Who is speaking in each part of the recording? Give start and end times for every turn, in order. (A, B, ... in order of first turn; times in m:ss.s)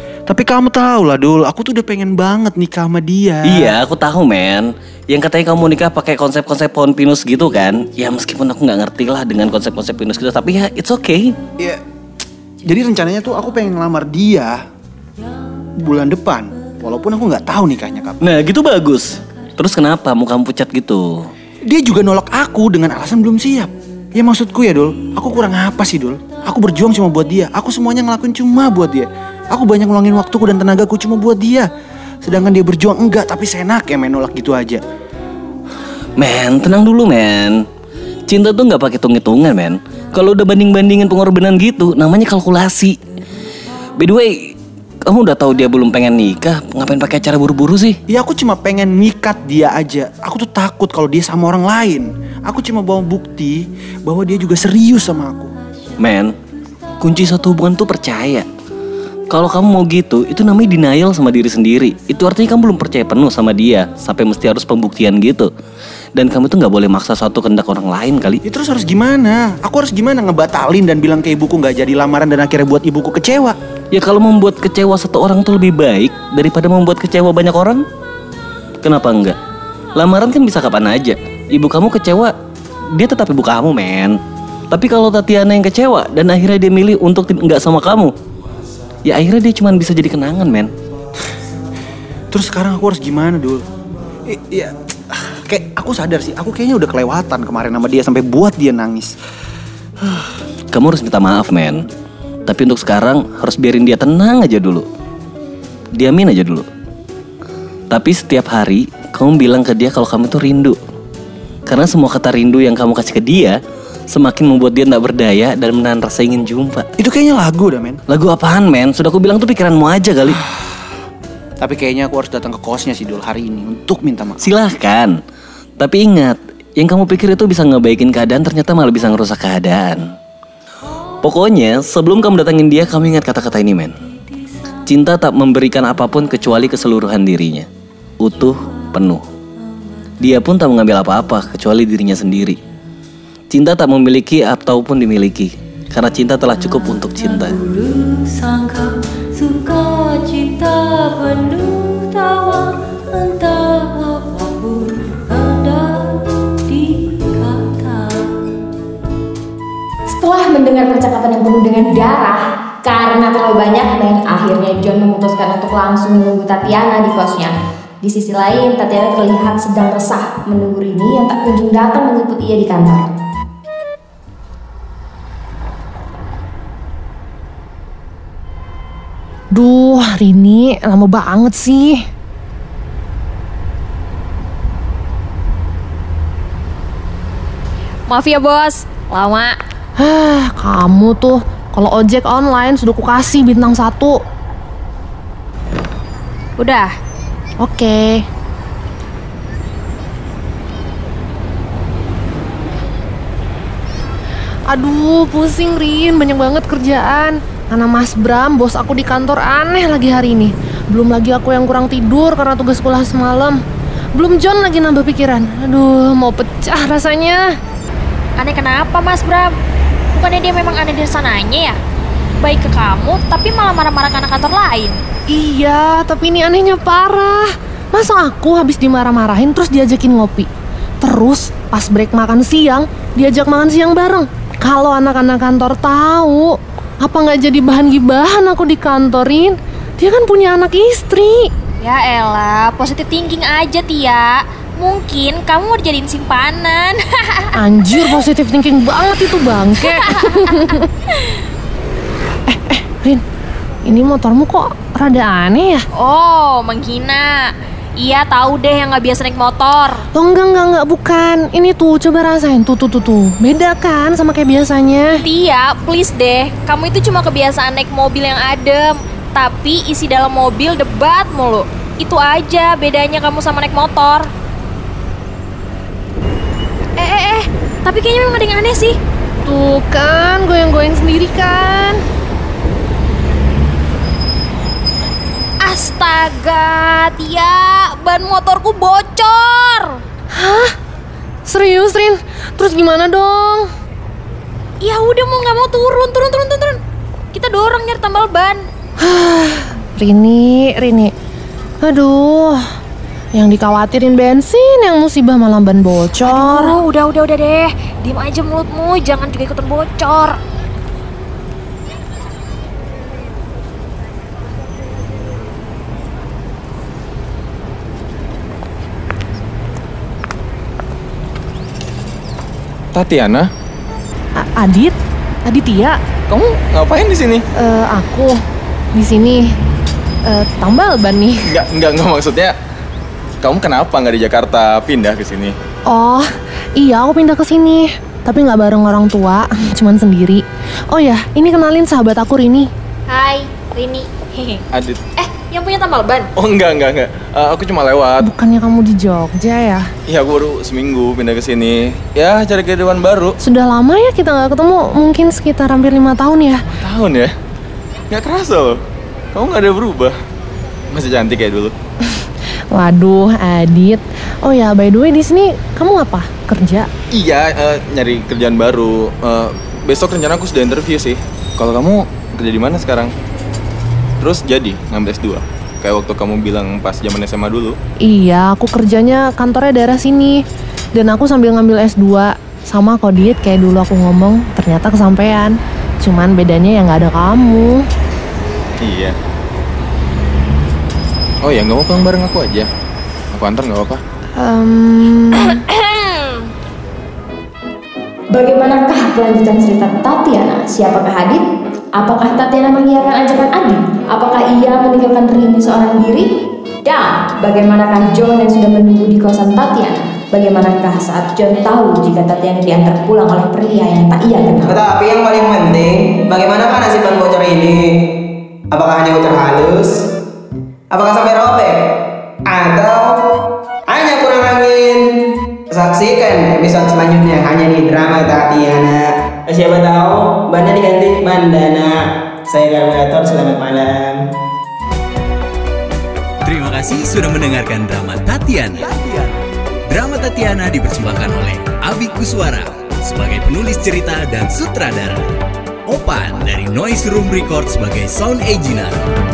0:00.3-0:03.7 A
0:03.5-0:11.3 B
0:12.6-0:14.6 A
0:15.8-0:18.2 A
0:18.2-0:21.3 B
0:21.7-0:31.7 A
0:32.2-0:34.8 A
0:36.2-0:37.6 B
0:38.3-0:43.0 B
0:44.0-0:44.5 B
0:45.1-0:48.0 B
0:48.1-0:55.5 A
0:56.0-0:56.4 B
0:57.0-0:58.5 B
0:59.3-1:05.5 B
1:06.2-1:08.4 B
1:08.4-1:13.6 A
1:13.9-1:17.8 B
1:18.8-1:19.4 B
1:20.0-1:22.3 B
1:23.0-1:24.2 B
1:24.7-1:28.1 B
1:29.0-1:30.7 B
1:32.3-1:33.6 A
1:34.3-1:39.1 A
1:40.7-1:41.8 B
1:42.5-1:44.8 B
1:46.0-1:46.7 B
1:47.9-1:50.8 B
1:51.7-1:53.6 B
1:54.1-1:56.9 B
1:57.0-1:58.0 A
1:58.1-2:00.4 B
2:01.6-2:04.4 A
2:04.4-2:05.2 B
2:05.8-2:10.0 B
2:11.2-2:13.9 B
2:14.9-2:17.7 B
2:18.2-2:19.2 B
2:20.2-2:22.6 B
2:23.5-2:27.6 B
2:27.5-2:36.0 C
2:36.7-2:38.2 C
2:40.1-2:53.0 D
2:59.5-3:02.0 E
3:08.1-3:09.6 F
3:10.0-3:14.2 E
3:16.6-3:16.9 F
3:17.6-3:18.2 E
3:24.7-3:33.6 E
3:34.2-3:37.4 E
3:38.4-3:39.5 F
3:40.1-3:41.8 F
3:42.4-3:45.0 F
3:45.3-3:50.5 E
3:51.0-4:01.5 E
4:01.8-4:08.1 F
4:07.6-4:10.9 E
4:10.0-4:10.6 F
4:12.5-4:13.2 E
4:13.9-4:15.8 E
4:16.0-4:20.0 F
4:20.1-4:25.2 E
4:25.2-4:34.3 F
4:37.0-4:39.0 F
4:39.4-4:42.0 E
4:45.6-4:50.0 F
4:50.3-4:50.7 E
4:51.5-4:53.7 E
4:54.8-4:56.8 F
4:57.3-4:58.6 F
4:59.0-5:01.1 E
5:01.8-5:02.6 E
5:03.4-5:06.8 E
5:06.3-5:10.4 F
5:22.9-5:23.5 G
5:24.4-5:26.0 E
5:26.3-5:27.4 G
5:27.6-5:28.4 E
5:29.0-5:29.5 E
5:30.3-5:31.5 E
5:31.5-5:32.5 G
5:33.4-5:35.6 G
5:35.9-5:42.7 E
5:43.1-5:44.6 F
5:44.7-5:45.0 G
5:45.2-5:46.3 F
5:46.4-5:48.2 G
5:48.2-5:49.9 E
5:50.1-5:53.4 G
5:53.4-5:56.6 E
5:56.7-5:57.3 G
5:58.1-5:58.8 G
5:59.3-6:00.2 G
6:00.9-6:01.7 G
6:02.7-6:06.9 E
6:07.1-6:13.1 G
6:14.2-6:17.8 G
6:18.0-6:20.4 E
6:21.0-6:27.8 E
6:28.8-6:29.2 G
6:31.4-6:32.7 G
6:33.3-6:34.0 G
6:34.4-6:35.6 E
6:35.5-6:36.5 F
6:38.3-6:41.4 D
6:42.0-6:46.3 D
6:46.8-6:54.8 D
6:54.6-6:57.8 H
6:58.7-6:59.9 H
7:00.9-7:01.8 H
7:02.5-7:03.1 H
7:03.9-7:05.0 H
7:05.7-7:14.3 H
7:16.4-7:25.3 I
7:25.9-7:29.0 I